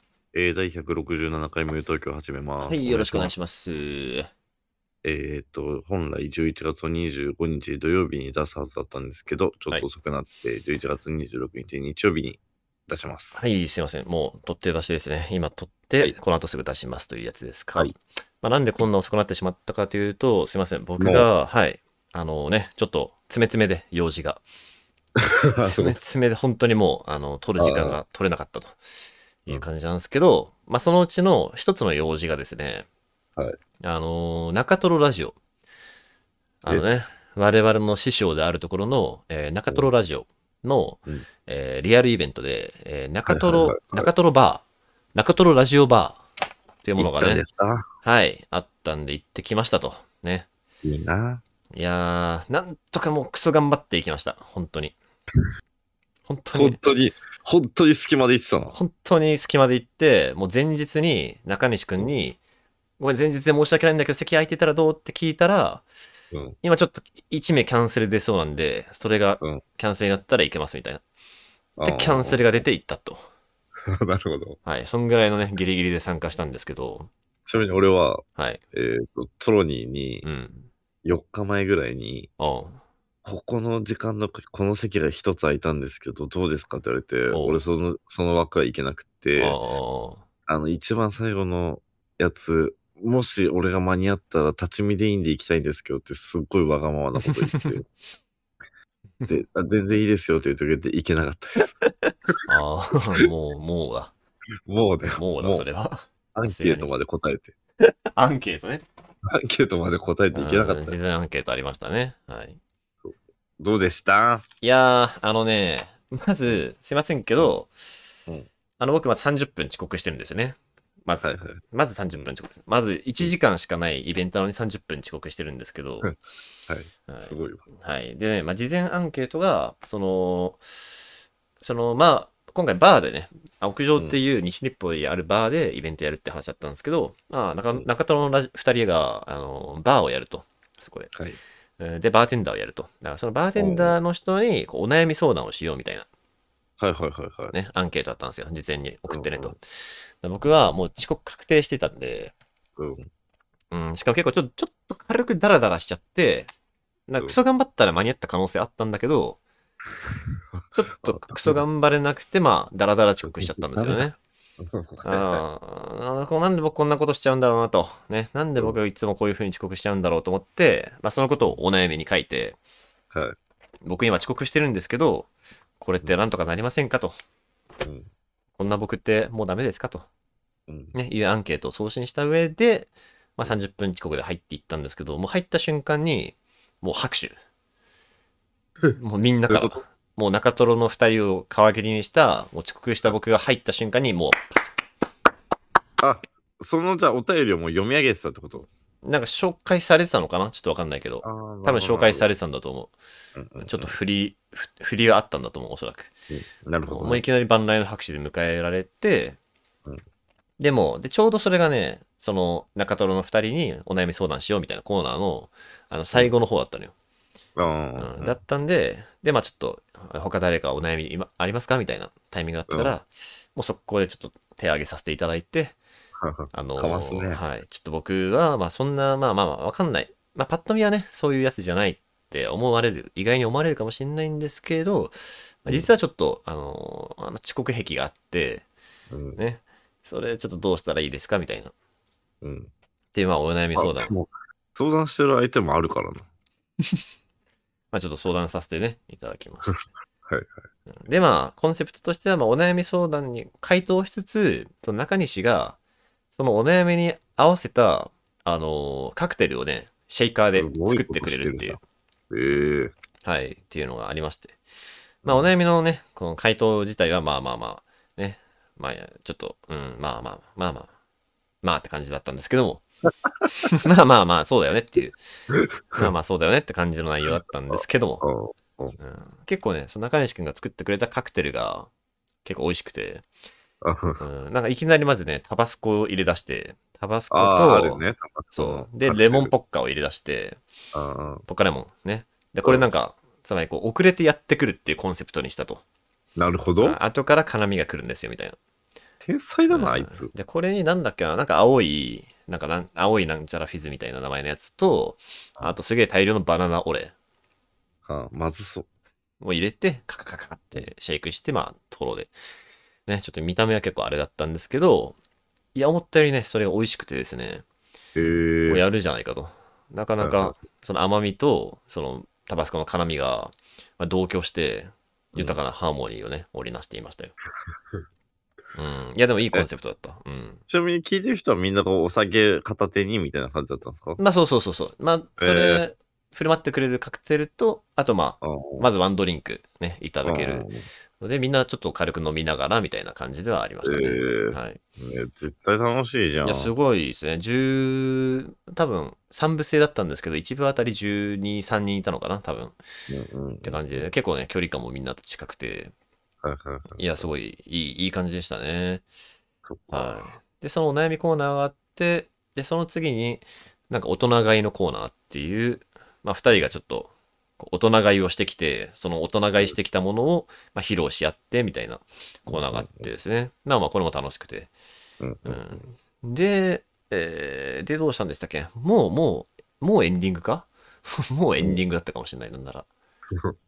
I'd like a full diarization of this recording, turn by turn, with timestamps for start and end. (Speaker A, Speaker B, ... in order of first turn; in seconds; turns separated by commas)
Speaker A: 0.3-3.3, Speaker B: 2.6-4.3, Speaker A: 5.0-13.4, Speaker B: 13.3-24.4, Speaker A: 21.0-21.3, Speaker A: 25.2-25.9, Speaker B: 25.6-28.8, Speaker A: 27.6-28.0, Speaker B: 29.4-32.9, Speaker B: 33.8-35.4, Speaker B: 36.6-44.6, Speaker A: 43.3-44.1, Speaker B: 45.1-46.2, Speaker B: 46.8-47.4, Speaker A: 47.0-47.8, Speaker B: 48.0-50.5, Speaker A: 50.8-51.4, Speaker B: 51.7-54.9, Speaker B: 56.3-56.8, Speaker A: 56.5-58.7, Speaker B: 58.7-62.4, Speaker B: 63.0-65.9, Speaker A: 66.3-66.6, Speaker B: 66.6-71.0, Speaker A: 71.8-72.6, Speaker B: 71.8-73.2, Speaker A: 73.9-74.6, Speaker B: 74.6-77.1, Speaker A: 77.5-80.2, Speaker B: 80.2-80.7, Speaker A: 81.0-82.3, Speaker B: 82.4-82.8, Speaker A: 83.2-89.6, Speaker B: 87.3-87.6, Speaker B: 89.4-90.2, Speaker A: 90.5-97.8, Speaker B: 97.2-97.8, Speaker A: 99.3-101.7, Speaker B: 102.0-104.1, Speaker A: 104.7-105.6, Speaker B: 105.1-106.9, Speaker A: 106.3-107.5, Speaker B: 108.1-108.8, Speaker A: 109.3-111.0, Speaker B: 110.3-112.6, Speaker A: 113.0-114.4, Speaker B: 114.6-118.1, Speaker B: 118.8-126.1, Speaker A: 121.2-121.6, Speaker A: 126.7-127.6, Speaker B: 127.1-130.6, Speaker B: 131.6-141.1, Speaker A: 141.1-141.4, Speaker B: 141.8-146.1, Speaker A: 143.6-143.9, Speaker A: 146.8-147.5, Speaker B: 147.5-149.6, Speaker A: 149.1-149.5, Speaker B: 150.2-152.3, Speaker A: 152.8-153.1, Speaker B: 153.7-156.5, Speaker B: 157.1-159.4, Speaker B: 160.7-164.2, Speaker A: 161.0-161.6, Speaker A: 163.2-164.0, Speaker A: 164.6-165.4, Speaker B: 165.0-172.6, Speaker B: 173.8-177.2, Speaker A: 177.8-178.1, Speaker B: 178.6-180.1, Speaker A: 180.7-180.9, Speaker B: 180.9-187.3, Speaker B: 188.9-194.4, Speaker A: 189.5-189.8, Speaker A: 196.0-198.7, Speaker B: 199.0-202.9, Speaker A: 201.2-202.3, Speaker A: 203.3-203.9, Speaker B: 203.6-206.1, Speaker A: 206.3-207.2, Speaker B: 206.8-209.4, Speaker B: 210.6-216.9, Speaker A: 217.6-218.4, Speaker B: 218.0-225.8, Speaker A: 226.2-227.4, Speaker B: 226.5-238.6, Speaker A: 239.1-239.4, Speaker B: 239.4-241.7, Speaker A: 242.4-242.7, Speaker B: 243.1-244.1, Speaker A: 243.8-246.2, Speaker B: 247.9-249.8, Speaker A: 250.3-250.5, Speaker B: 251.0-255.8, Speaker B: 256.4-261.8, Speaker A: 260.5-261.8, Speaker A: 262.3-262.9, Speaker B: 263.2-264.6, Speaker B: 265.2-270.9, Speaker A: 265.2-265.5, Speaker B: 271.6-272.8, Speaker B: 273.6-275.2, Speaker A: 275.5-276.1, Speaker B: 275.9-278.2, Speaker A: 277.7-279.0, Speaker B: 279.0-281.9, Speaker B: 282.4-283.2, Speaker A: 283.8-284.2, Speaker B: 284.2-290.6, Speaker A: 287.3-289.5, Speaker A: 290.9-291.4, Speaker B: 291.5-295.8, Speaker A: 296.4-297.0, Speaker B: 296.8-298.6, Speaker A: 299.2-300.3, Speaker B: 299.7-307.1, Speaker A: 308.0-308.9, Speaker B: 309.4-312.3, Speaker B: 313.1-315.2, Speaker B: 315.7-317.6, Speaker A: 318.1-318.8, Speaker B: 318.7-327.3, Speaker A: 320.2-320.5, Speaker B: 328.7-330.6, Speaker A: 330.7-334.2, Speaker B: 334.2-340.7, Speaker A: 335.4-335.8, Speaker A: 338.4-338.9, Speaker A: 340.2-340.9, Speaker B: 341.2-344.8, Speaker A: 343.8-346.7, Speaker B: 346.4-352.8, Speaker A: 353.1-354.1, Speaker B: 353.6-355.9, Speaker A: 356.4-357.2, Speaker B: 356.9-359.0, Speaker A: 359.6-360.3, Speaker B: 359.9-374.7, Speaker A: 372.5-373.1, Speaker A: 375.2-375.8, Speaker B: 375.4-382.9